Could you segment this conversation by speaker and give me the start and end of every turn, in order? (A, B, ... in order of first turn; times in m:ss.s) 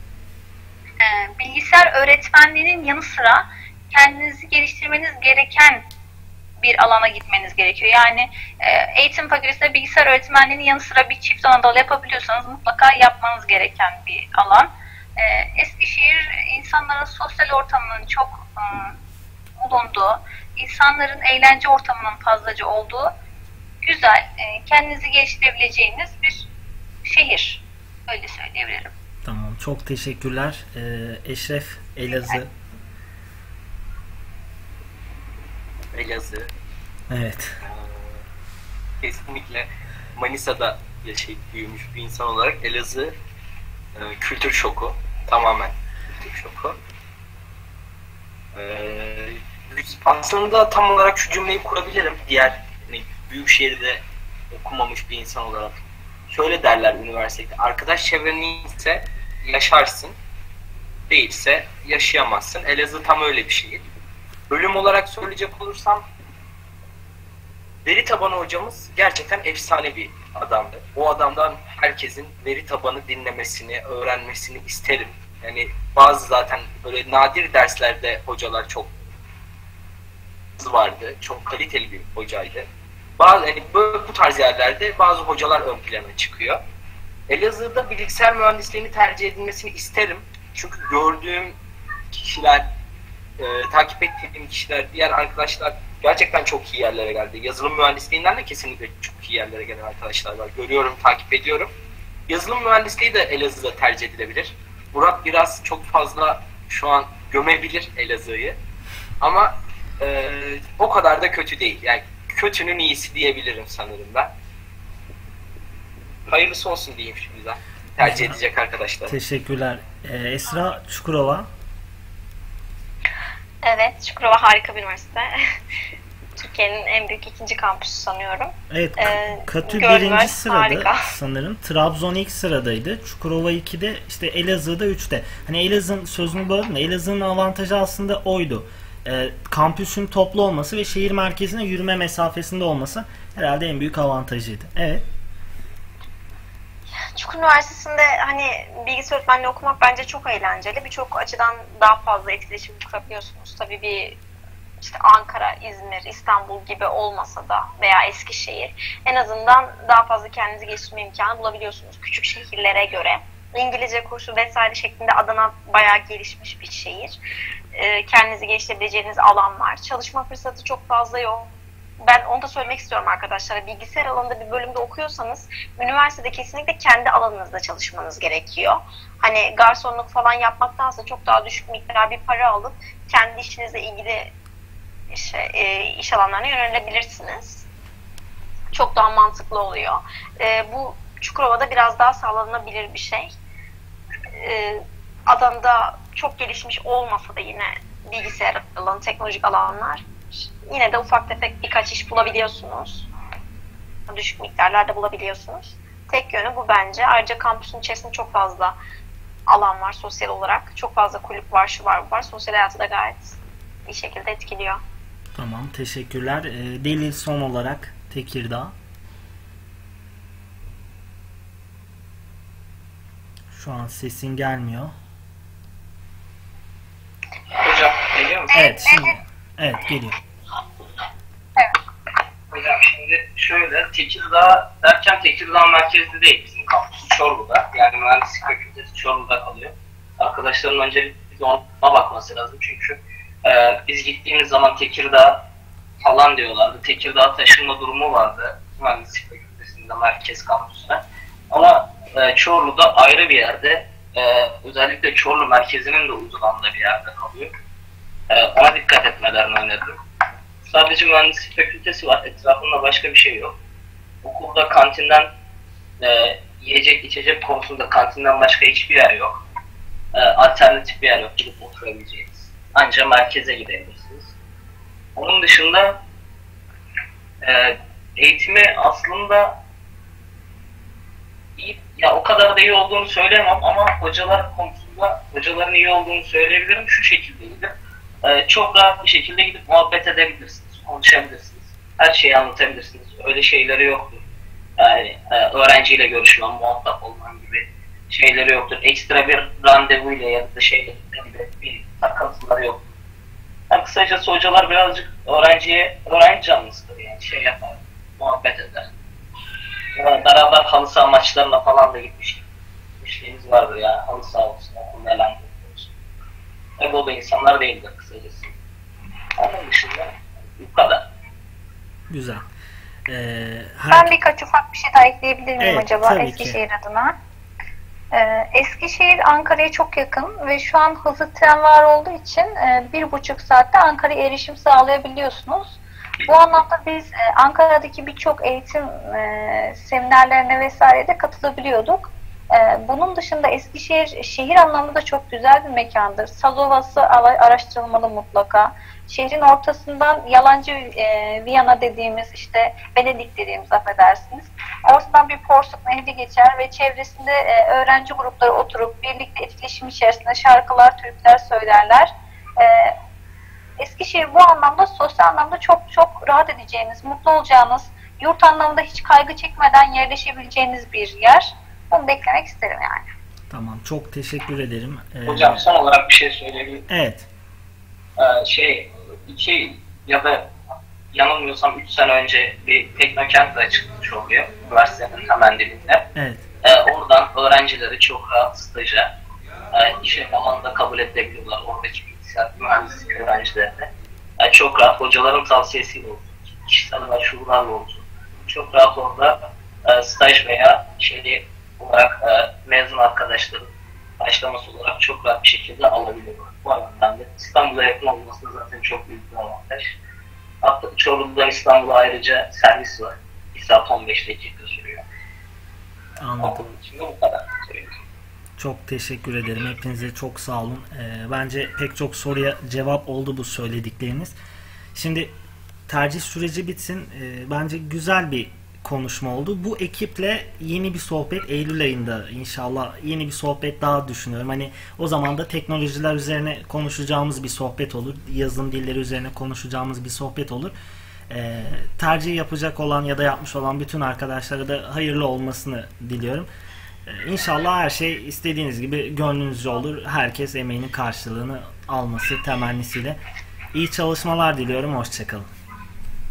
0:01.0-0:05.8 A
0:06.6-0:19.0 A
0:19.6-0:23.1 A
0:23.8-0:26.5 A
0:27.0-0:28.9 A
0:29.2-0:32.5 B
0:35.9-0:36.5 C
0:37.1-0:37.6 B
0:37.6-0:38.2 C
0:39.0-0:43.2 C
0:44.0-0:46.8 C
0:48.5-1:00.2 C
1:01.1-1:03.8 C
1:04.5-1:06.0 C
1:07.8-1:18.9 C
1:20.6-1:22.7 C
1:23.2-1:26.6 C
1:27.3-1:31.6 C
1:32.1-1:32.7 C
1:33.4-1:41.7 C
1:42.3-1:48.6 C
1:49.2-1:54.3 C
1:56.3-1:59.2 C
1:58.0-1:58.4 B
1:59.1-2:01.5 B
2:03.6-2:05.6 D
2:06.4-2:11.0 D
2:08.7-2:25.0 B
2:27.2-2:34.2 D
2:34.8-2:47.2 D
2:47.8-2:51.5 D
2:52.0-3:04.3 D
3:05.1-3:07.7 D
3:08.7-3:13.4 D
3:14.3-3:23.1 D
3:24.1-3:28.8 D
3:29.5-3:34.8 D
3:35.4-3:38.8 B
3:43.5-3:45.0 B
3:47.6-3:48.5 E
3:48.5-3:49.2 A
3:48.5-3:50.2 B
3:52.5-4:05.5 E
4:06.0-4:17.6 E
4:18.3-4:20.0 E
4:20.6-4:23.6 E
4:24.2-4:25.3 E
4:26.0-4:29.4 E
4:30.1-4:34.3 E
4:35.2-4:36.0 E
4:37.4-4:39.6 E
4:41.6-4:54.2 E
4:54.8-5:02.8 E
5:03.7-5:08.9 E
5:10.0-5:12.5 E
5:13.0-5:15.9 E
5:16.8-5:18.5 E
5:19.4-5:21.1 E
5:22.1-5:22.5 B
5:23.1-5:24.1 B
5:23.9-5:27.2 A
5:25.6-5:26.6 B
5:28.1-6:03.0 A
6:03.8-6:13.0 A
6:13.5-6:15.7 B
6:15.3-6:16.8 E
6:16.9-6:17.3 B
6:18.2-6:20.5 E
6:21.1-6:26.1 E
6:26.2-6:26.4 B
6:26.6-6:29.1 E
6:29.7-6:50.0 E
6:50.6-6:55.1 E
6:56.2-6:56.7 B
6:56.4-6:58.0 E
6:58.6-7:04.4 B
7:05.0-7:05.3 B
7:05.9-7:20.7 B
7:21.3-7:26.5 B
7:27.1-7:33.2 B
7:33.7-7:35.5 B